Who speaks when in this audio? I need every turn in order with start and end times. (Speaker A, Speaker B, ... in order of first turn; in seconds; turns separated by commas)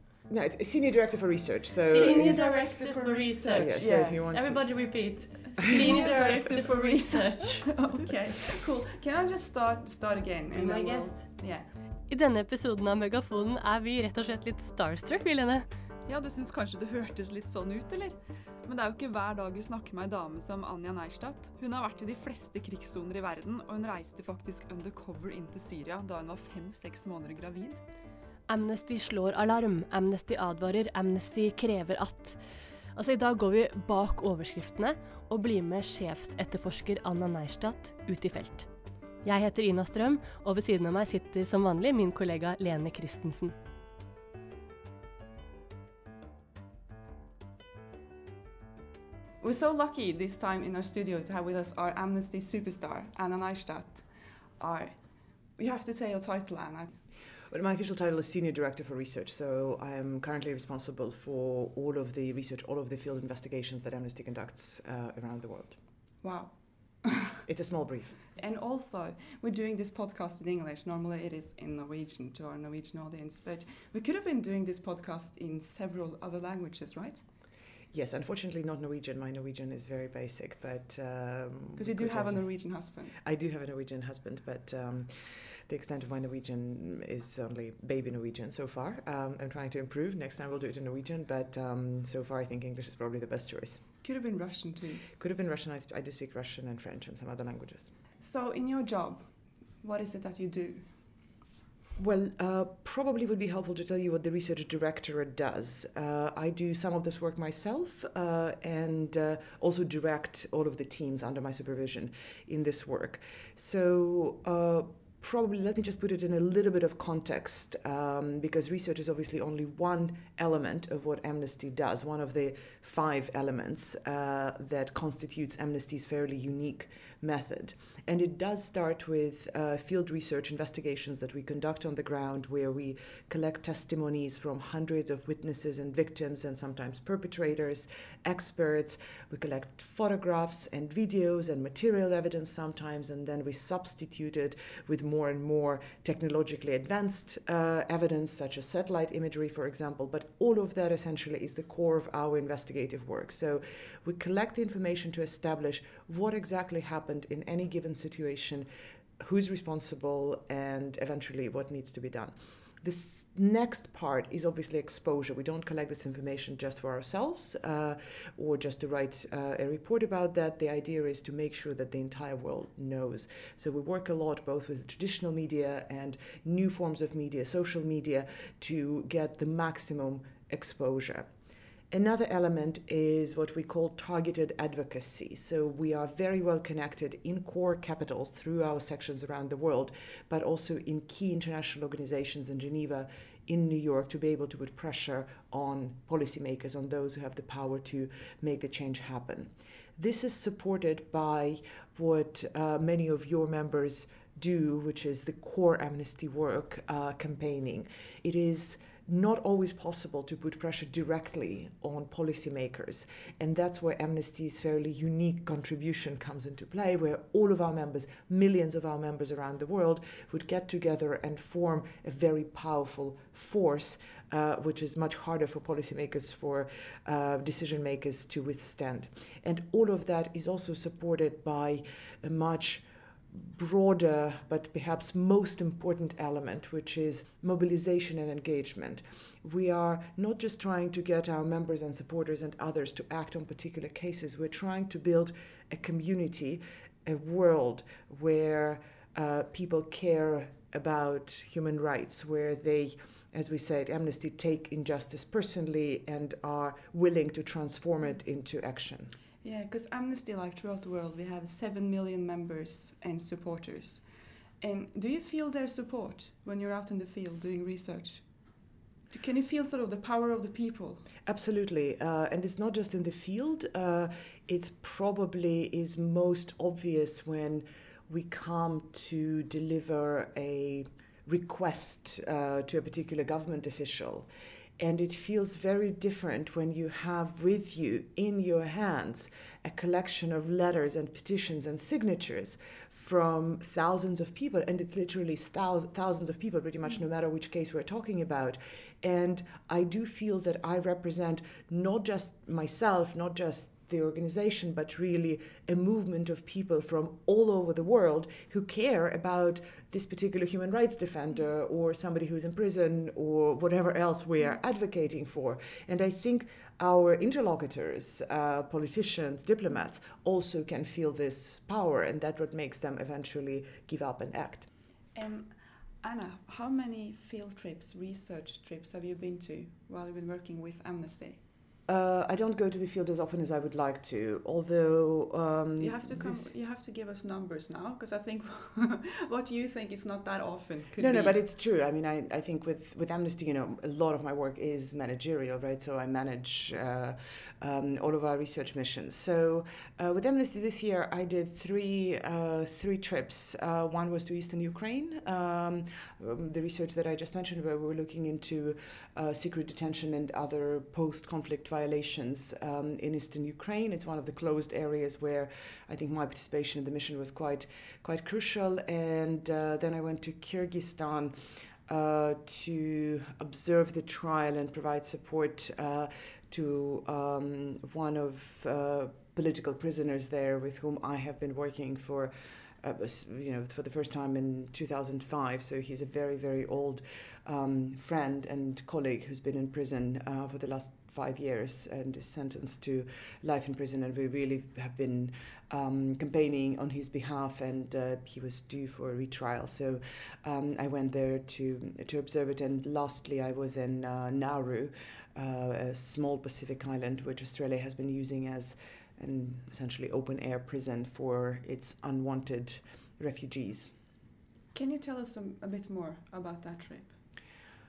Speaker A: 0.3-2.4, Speaker B: 1.8-7.8, Speaker C: 1.9-4.2, Speaker A: 3.5-4.6, Speaker C: 5.6-11.7, Speaker B: 10.5-11.3, Speaker B: 12.1-15.7, Speaker C: 16.1-27.8, Speaker B: 28.5-32.4, Speaker B: 32.9-38.7, Speaker B: 39.2-43.5, Speaker C: 49.4-55.0, Speaker C: 55.5-56.9, Speaker A: 57.5-65.8, Speaker C: 66.2-67.3, Speaker A: 67.5-68.2, Speaker C: 68.3-77.2, Speaker A: 77.9-82.5, Speaker C: 81.8-83.2, Speaker A: 83.2-85.1, Speaker A: 85.7-93.8, Speaker C: 94.0-95.0, Speaker A: 95.2-97.9, Speaker C: 98.2-100.9, Speaker A: 102.0-158.7, Speaker A: 159.2-181.3, Speaker A: 181.9-259.1, Speaker C: 259.4-264.0, Speaker C: 264.6-268.5, Speaker C: 269.1-271.1, Speaker A: 271.2-284.3, Speaker A: 284.8-324.7, Speaker C: 325.1-331.4, Speaker A: 331.9-336.5, Speaker C: 335.8-341.4, Speaker A: 341.0-413.9, Speaker C: 414.7-417.1